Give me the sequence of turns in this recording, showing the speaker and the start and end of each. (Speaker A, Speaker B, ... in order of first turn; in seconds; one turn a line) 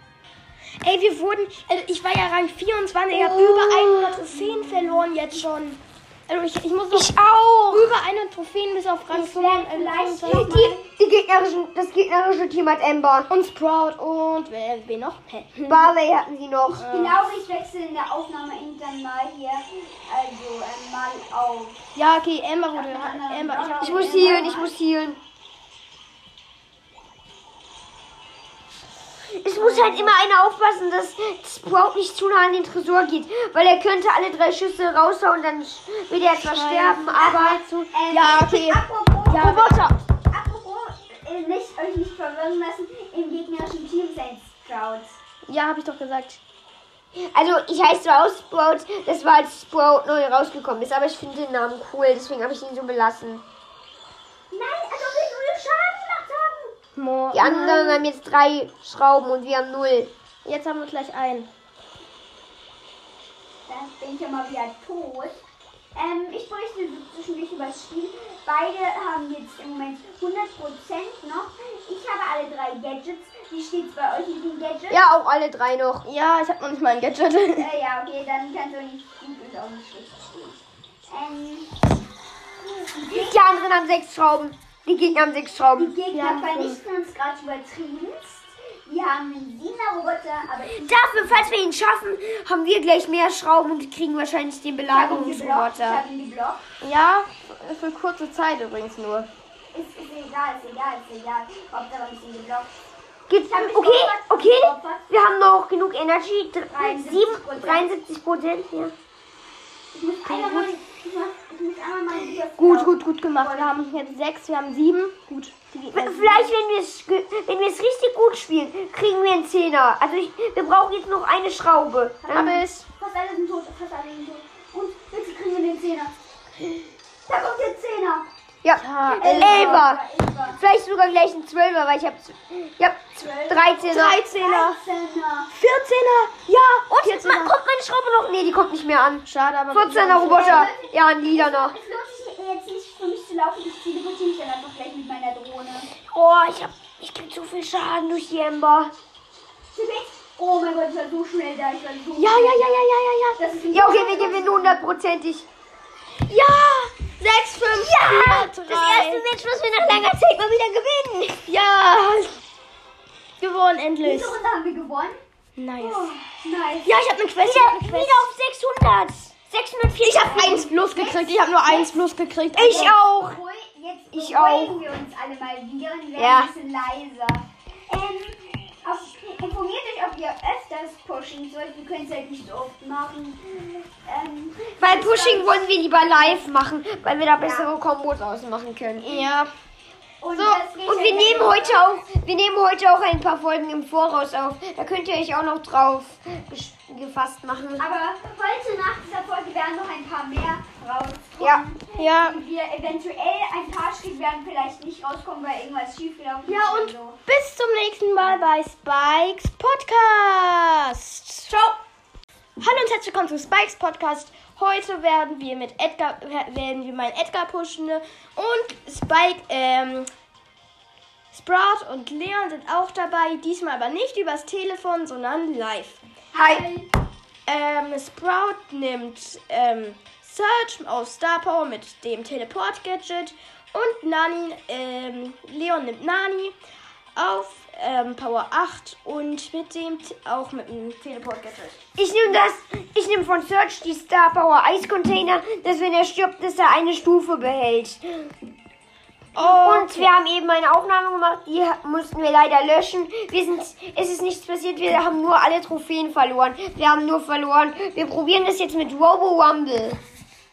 Speaker A: 0.8-7.2
Speaker B: 3.1-5.1
Speaker B: 6.9-7.9
Speaker A: 7.7-10.6
Speaker C: 9.1-10.8
Speaker B: 10.2-13.3
Speaker A: 13.3-15.9
Speaker B: 15.7-16.8
Speaker C: 16.6-21.8
Speaker A: 16.8-17.2
Speaker A: 21.9-24.5
Speaker C: 22.7-24.7
Speaker B: 23.8-25.2
Speaker B: 29.4-37.6
Speaker A: 29.6-30.1
Speaker A: 36.4-40.0
Speaker C: 37.1-45.1
Speaker A: 45.5-46.4
Speaker B: 47.3-53.4
Speaker C: 54.5-56.7
Speaker A: 56.9-58.0
Speaker B: 57.3-60.1
Speaker A: 60.4-61.5
Speaker C: 63.7-65.4
Speaker C: 65.9-75.0
Speaker B: 74.9-76.1
Speaker A: 76.0-77.7
Speaker C: 77.5-81.7
Speaker C: 82.9-83.4
Speaker B: 83.1-85.9
Speaker C: 85.8-91.5
Speaker A: 86.1-86.8
Speaker B: 90.7-96.0
Speaker C: 94.9-96.6
Speaker A: 96.8-99.3
Speaker C: 99.7-102.7
Speaker B: 103.3-108.9
Speaker C: 103.5-105.0
Speaker C: 106.7-107.9
Speaker C: 109.9-113.8
Speaker A: 110.2-110.7
Speaker A: 112.5-116.5
Speaker B: 115.9-122.6
Speaker C: 122.2-126.1
Speaker A: 122.3-122.8
Speaker C: 127.3-128.3
Speaker B: 128.6-130.0
Speaker A: 128.7-129.8
Speaker C: 129.1-130.6
Speaker B: 130.5-134.2
Speaker C: 133.2-135.5
Speaker A: 133.9-134.8
Speaker A: 135.5-137.6
Speaker B: 136.9-141.7
Speaker A: 139.2-140.7
Speaker C: 140.2-145.9
Speaker B: 146.1-148.9
Speaker C: 149.7-152.8
Speaker A: 152.2-153.4
Speaker C: 153.4-154.8
Speaker B: 153.7-155.4
Speaker A: 156.2-159.2
Speaker B: 157.7-161.4
Speaker A: 161.4-162.4
Speaker A: 163.4-164.3
Speaker C: 164.0-165.1
Speaker A: 165.6-166.1
Speaker C: 165.8-166.9
Speaker A: 166.8-168.2
Speaker B: 167.4-170.7
Speaker A: 170.0-172.9
Speaker C: 170.3-172.0
Speaker B: 172.6-173.4
Speaker C: 173.1-186.4
Speaker B: 174.1-174.8
Speaker B: 176.2-176.5
Speaker B: 184.8-189.1
Speaker C: 187.4-187.7
Speaker A: 189.0-189.5
Speaker C: 190.2-191.8
Speaker A: 190.3-190.6
Speaker B: 190.8-197.8
Speaker C: 197.8-207.2
Speaker A: 202.0-202.4
Speaker A: 206.5-211.5
Speaker C: 211.5-211.8
Speaker A: 212.6-220.1
Speaker A: 221.3-226.0
Speaker C: 226.3-226.9
Speaker B: 226.4-226.6
Speaker A: 227.5-236.5
Speaker A: 237.1-241.8
Speaker B: 242.0-248.3
Speaker A: 249.3-250.1
Speaker B: 249.3-260.0